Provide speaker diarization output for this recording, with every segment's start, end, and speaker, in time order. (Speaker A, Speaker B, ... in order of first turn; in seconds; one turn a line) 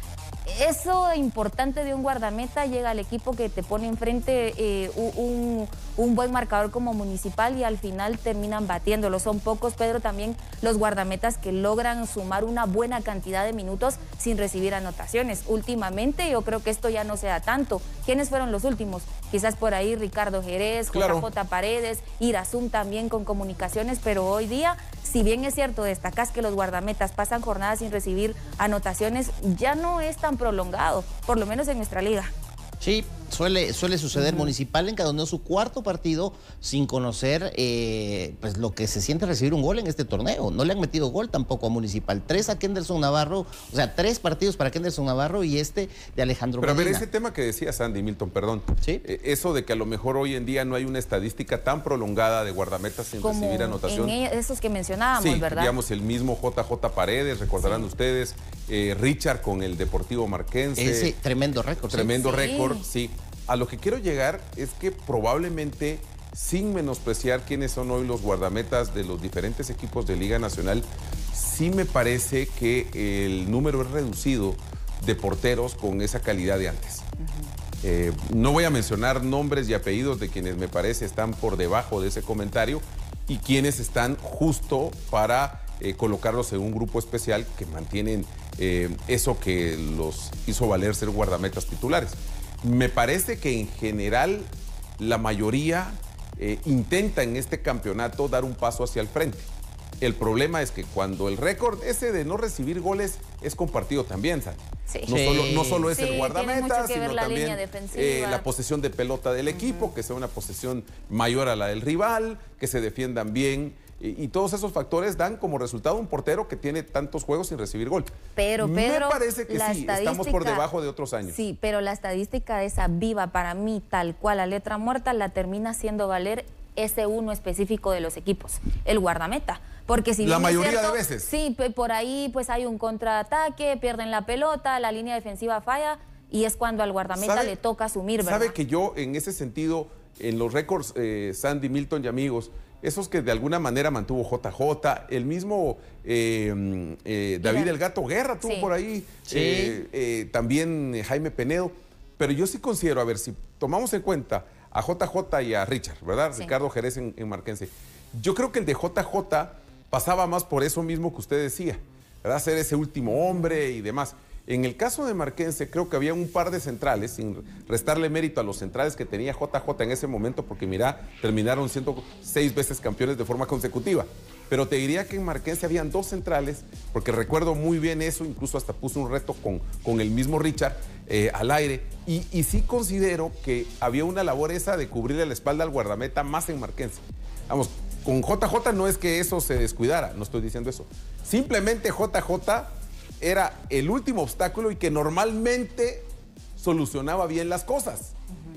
Speaker A: 0.5-32.3
Speaker B: 20.9-21.2
Speaker C: 32.8-47.0
Speaker A: 34.1-34.5
Speaker B: 46.6-54.1
Speaker A: 53.2-55.8
Speaker B: 55.1-61.1
Speaker C: 60.8-62.2
Speaker B: 61.9-77.1
Speaker A: 62.1-62.8
Speaker B: 77.8-99.5
Speaker B: 100.0-121.4
Speaker A: 104.9-105.1
Speaker C: 105.1-105.9
Speaker A: 105.9-108.5
Speaker A: 118.3-120.6
Speaker A: 121.2-138.6
Speaker B: 130.2-131.3
Speaker B: 137.1-137.5
Speaker B: 138.2-198.1
Speaker A: 147.4-147.7
Speaker A: 148.4-148.7
Speaker C: 149.3-149.8